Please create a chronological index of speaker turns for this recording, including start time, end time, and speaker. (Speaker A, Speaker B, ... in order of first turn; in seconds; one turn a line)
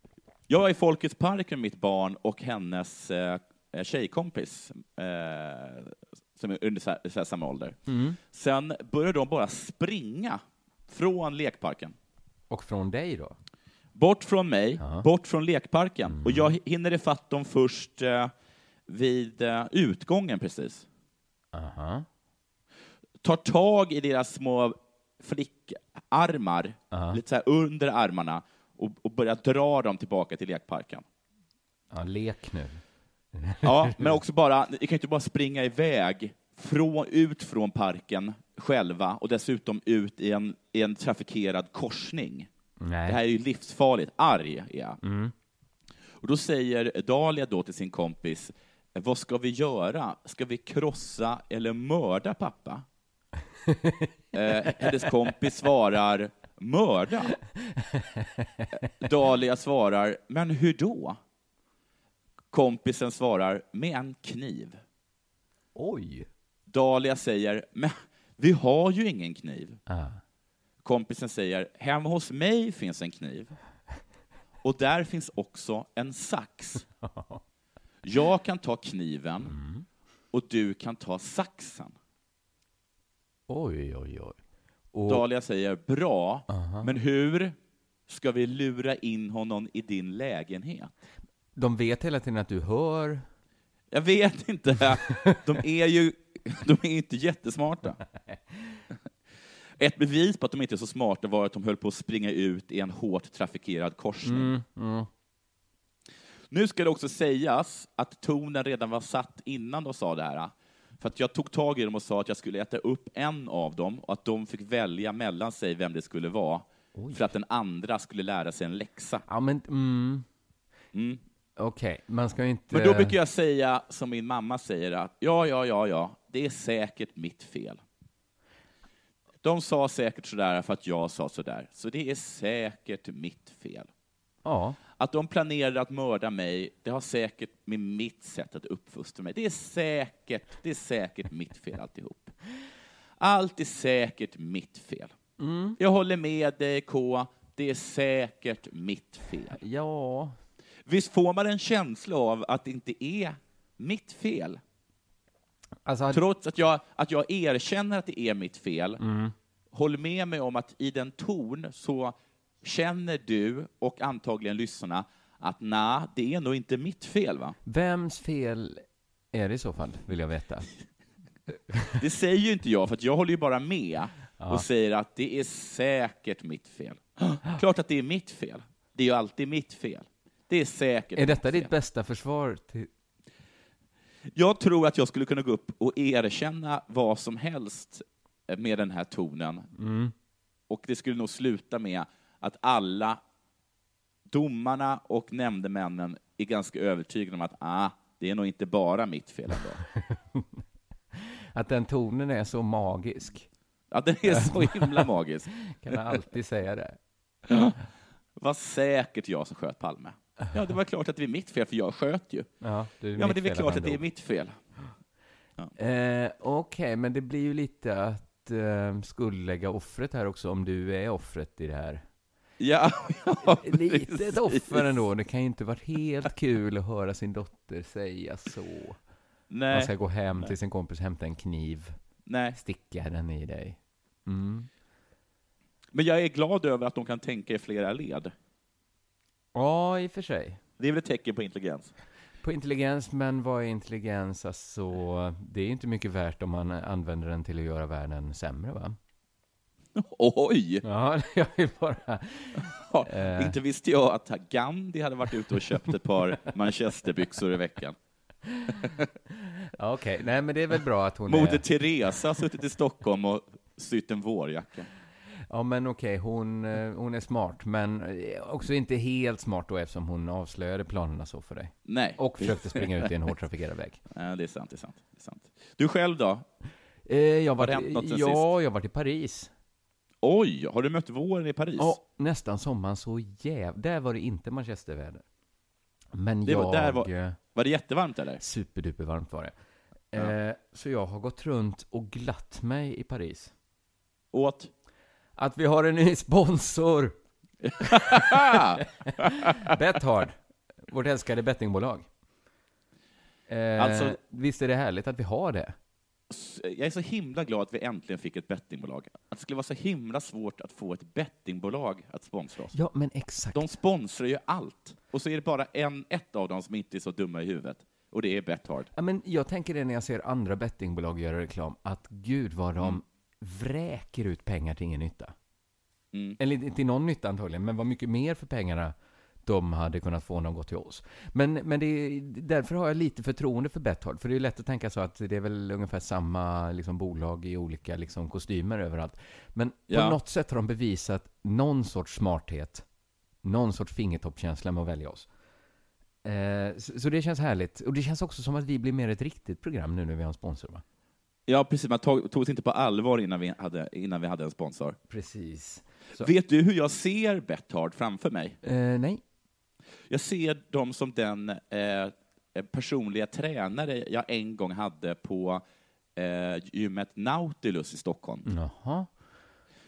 Speaker A: 0.5-11.9
Speaker B: 7.9-8.2
Speaker B: 12.5-13.4
Speaker A: 13.9-18.3
Speaker B: 14.8-15.1
Speaker B: 16.1-16.5
Speaker A: 18.9-20.8
Speaker B: 21.5-22.1
Speaker A: 23.2-31.0
Speaker B: 26.9-27.2
Speaker B: 31.9-32.8
Speaker B: 33.3-34.2
Speaker A: 33.6-42.5
Speaker B: 42.8-43.2
Speaker A: 43.1-45.0
Speaker B: 45.0-45.3
Speaker A: 46.2-52.8
Speaker B: 53.7-54.1
Speaker A: 54.3-57.3
Speaker B: 57.6-58.7
Speaker A: 59.0-61.2
Speaker A: 62.5-64.8
Speaker B: 65.8-66.3
Speaker A: 66.7-69.8
Speaker B: 69.9-70.2
Speaker A: 70.8-73.5
Speaker A: 74.6-76.8
Speaker B: 77.0-77.4
Speaker A: 78.0-79.5
Speaker B: 79.4-79.8
Speaker A: 80.3-81.9
Speaker B: 83.5-84.4
Speaker B: 84.9-85.2
Speaker A: 85.1-87.5
Speaker B: 86.5-86.9
Speaker A: 88.1-90.9
Speaker B: 91.5-93.2
Speaker A: 93.9-98.0
Speaker B: 98.3-98.8
Speaker A: 99.8-104.5
Speaker B: 104.2-105.1
Speaker A: 106.5-119.2
Speaker B: 116.9-117.3
Speaker B: 119.2-120.2
Speaker A: 120.9-121.2
Speaker B: 121.6-123.2
Speaker A: 122.7-127.8
Speaker A: 129.4-133.9
Speaker B: 134.4-134.8
Speaker A: 135.0-142.3
Speaker A: 143.2-145.1
Speaker B: 145.4-145.8
Speaker A: 145.8-149.6
Speaker B: 149.6-150.4
Speaker A: 150.8-154.6
Speaker B: 155.8-156.2
Speaker A: 156.1-159.0
Speaker B: 159.0-159.3
Speaker A: 159.7-167.5
Speaker B: 167.7-170.7
Speaker B: 171.7-172.0
Speaker A: 172.0-181.7
Speaker B: 174.4-174.7
Speaker B: 181.2-182.9
Speaker A: 184.3-189.7
Speaker B: 189.8-190.1
Speaker A: 190.7-193.2
Speaker A: 194.3-199.8
Speaker B: 199.9-200.4
Speaker B: 201.2-203.5
Speaker A: 203.9-206.0
Speaker B: 204.3-205.1
Speaker B: 205.7-207.0
Speaker A: 207.5-207.8
Speaker A: 208.4-212.5
Speaker B: 212.6-214.0
Speaker A: 213.2-214.6
Speaker B: 215.8-222.0
Speaker A: 222.6-225.0
Speaker B: 223.5-229.0
Speaker A: 229.5-230.5
Speaker B: 229.7-231.9
Speaker A: 232.2-232.6
Speaker B: 232.5-234.7
Speaker A: 235.9-238.3
Speaker B: 239.5-240.6
Speaker A: 240.8-241.9
Speaker B: 242.4-248.9
Speaker A: 249.9-250.8
Speaker B: 250.8-253.6
Speaker A: 252.7-257.9
Speaker B: 258.5-258.9
Speaker B: 259.8-261.6
Speaker A: 261.3-264.9
Speaker B: 265.5-274.0
Speaker A: 271.9-273.1
Speaker A: 274.1-276.4
Speaker B: 277.1-279.5
Speaker A: 277.6-278.4
Speaker A: 280.2-282.0
Speaker B: 281.8-285.2
Speaker B: 286.1-287.4
Speaker A: 286.4-288.4
Speaker B: 288.4-289.5
Speaker B: 290.1-293.5
Speaker A: 294.3-294.7
Speaker B: 295.4-297.1
Speaker A: 297.6-299.7
Speaker B: 297.8-300.4
Speaker B: 300.9-302.1
Speaker B: 303.5-305.7
Speaker A: 303.8-304.2
Speaker A: 306.3-312.7
Speaker B: 312.7-313.8
Speaker A: 313.5-318.9
Speaker B: 318.9-325.3
Speaker A: 326.1-326.4
Speaker B: 326.4-328.9
Speaker B: 329.4-342.8
Speaker A: 339.9-340.2
Speaker B: 343.4-345.3
Speaker B: 346.2-350.8
Speaker A: 351.5-355.0
Speaker B: 355.1-356.3
Speaker A: 356.2-358.6
Speaker B: 358.6-359.2
Speaker A: 360.1-365.6
Speaker A: 366.1-368.4
Speaker B: 368.4-369.1